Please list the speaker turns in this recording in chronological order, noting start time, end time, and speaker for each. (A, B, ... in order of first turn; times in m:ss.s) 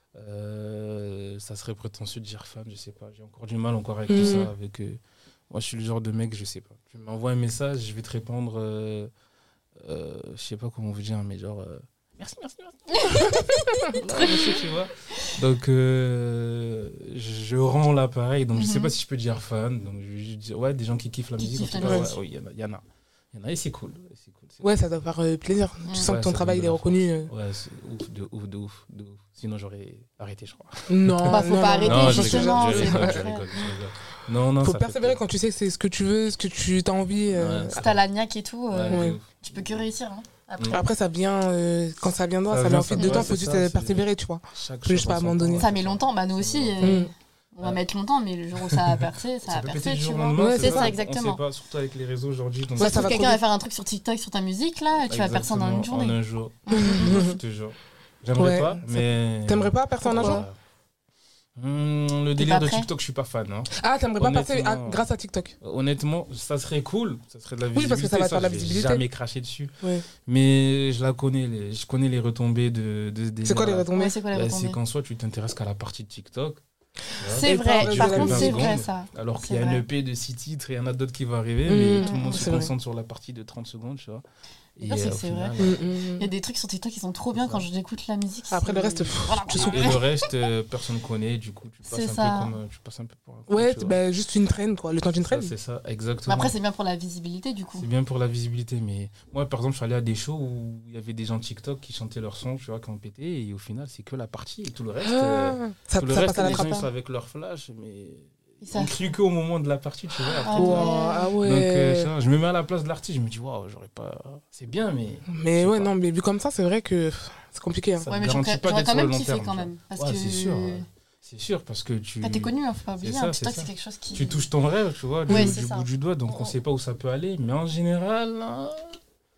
0:00.1-0:09.1 A
0:04.1-0:04.5 B
0:09.8-0:24.6 A
0:13.0-0:14.6 C
0:18.5-0:18.9 C
0:21.4-0:22.1 C
0:21.8-0:22.1 B
0:24.6-0:27.3 B
0:25.8-0:26.1 C
0:26.0-0:35.2 A
0:30.9-0:33.2 B
0:31.3-0:33.7 C
0:34.6-0:37.8 B
0:37.3-0:38.0 A
0:37.7-0:40.8 C
0:38.7-0:39.7 A
0:38.9-0:39.2 B
0:40.6-0:40.8 A
0:40.7-0:45.7 B
0:42.5-0:47.1 A
0:43.0-0:43.2 C
0:45.6-0:51.4 C
0:46.8-0:47.1 B
0:48.7-0:53.3 A
0:50.4-0:51.0 B
0:52.8-0:53.4 B
0:52.8-0:57.4 C
0:55.0-1:00.6 A
0:56.7-0:57.3 B
0:58.4-1:00.4 B
1:00.1-1:00.4 C
1:01.6-1:05.0 A
1:02.4-1:02.9 C
1:03.7-1:05.5 B
1:05.6-1:09.7 A
1:07.7-1:09.0 B
1:10.2-1:16.6 A
1:13.4-1:14.2 B
1:13.9-1:14.8 C
1:17.1-1:24.2 A
1:17.3-1:19.8 C
1:17.4-1:18.8 B
1:21.6-1:22.7 B
1:22.0-1:22.6 C
1:24.8-1:25.9 A
1:24.8-1:30.2 C
1:25.6-1:26.3 B
1:27.3-1:27.6 A
1:28.5-1:30.0 B
1:29.5-1:34.0 A
1:31.9-1:32.6 C
1:33.5-1:35.5 B
1:35.2-1:36.5 A
1:36.3-1:37.9 C
1:37.8-1:55.9 A
1:45.0-1:46.9 B
1:46.3-1:46.8 C
1:48.6-1:49.0 C
1:50.4-1:51.3 C
1:50.5-1:52.1 B
1:55.3-1:58.1 B
1:58.0-2:09.0 A
1:58.1-2:00.8 C
2:02.2-2:04.4 C
2:05.3-2:05.6 B
2:05.3-2:06.5 C